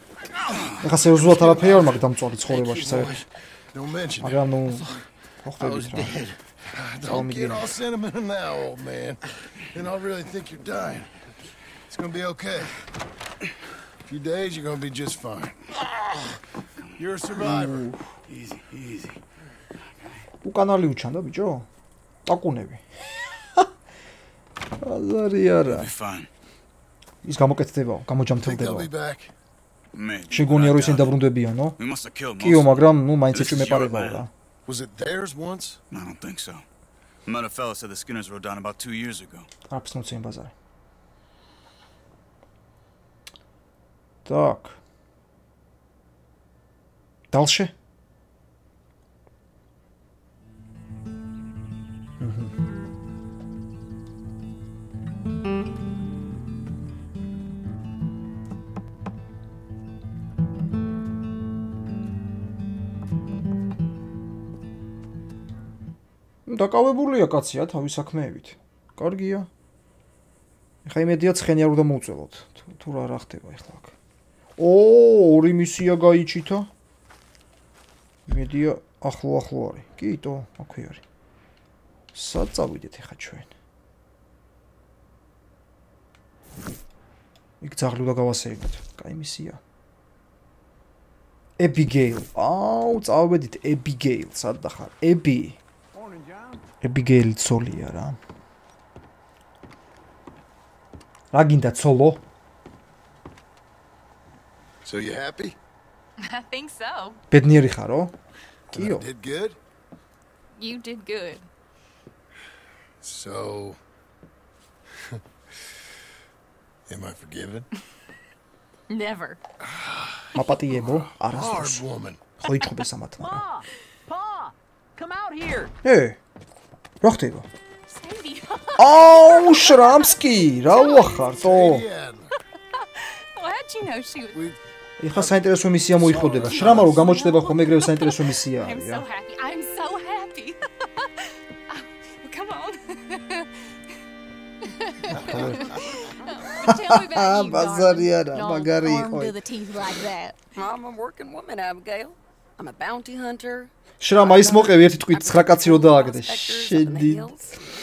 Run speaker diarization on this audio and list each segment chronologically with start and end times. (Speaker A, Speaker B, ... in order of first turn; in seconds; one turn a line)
Speaker A: 0.8-3.2
Speaker B: 1.1-4.5
Speaker A: 4.2-4.9
Speaker A: 5.4-6.2
Speaker B: 6.7-11.1
Speaker A: 7.0-7.6
Speaker B: 11.9-12.7
Speaker B: 14.1-15.7
Speaker B: 16.9-17.9
Speaker A: 17.4-18.0
Speaker C: 18.3-19.2
Speaker A: 20.4-21.7
Speaker A: 22.2-22.8
Speaker A: 24.8-25.9
Speaker C: 25.6-26.3
Speaker A: 27.2-28.9
Speaker B: 28.4-29.3
Speaker C: 29.9-31.2
Speaker A: 30.3-31.8
Speaker C: 31.8-34.2
Speaker A: 32.4-34.3
Speaker B: 34.6-35.8
Speaker C: 35.9-36.6
Speaker C: 37.2-39.5
Speaker A: 39.7-40.5
Speaker A: 44.2-44.8
Speaker A: 47.3-47.7
Speaker A: 52.2-52.5
Speaker A: 66.5-69.5
Speaker A: 70.8-73.9
Speaker A: 74.6-76.7
Speaker A: 78.3-81.0
Speaker A: 82.1-83.5
Speaker A: 87.6-89.6
Speaker A: 91.6-95.6
Speaker B: 95.9-96.6
Speaker A: 96.8-98.2
Speaker A: 101.3-102.2
Speaker B: 104.8-105.6
Speaker D: 106.2-107.2
Speaker A: 107.3-108.1
Speaker A: 108.7-109.1
Speaker B: 108.7-109.6
Speaker D: 110.5-111.5
Speaker B: 113.0-113.8
Speaker B: 116.9-117.7
Speaker D: 118.9-119.4
Speaker B: 119.6-122.2
Speaker A: 120.3-121.9
Speaker A: 122.4-123.4
Speaker E: 123.2-125.7
Speaker A: 125.8-126.2
Speaker A: 127.0-127.5
Speaker D: 127.9-131.4
Speaker A: 128.8-131.8
Speaker B: 131.3-132.3
Speaker D: 132.8-134.4
Speaker B: 134.3-134.6
Speaker A: 135.0-139.0
Speaker B: 135.1-137.2
Speaker D: 136.2-143.7
Speaker D: 144.6-150.4
Speaker B: 145.1-145.8
Speaker A: 145.2-145.6
Speaker A: 146.6-149.4
Speaker F: 150.5-157.6
Speaker A: 154.0-157.3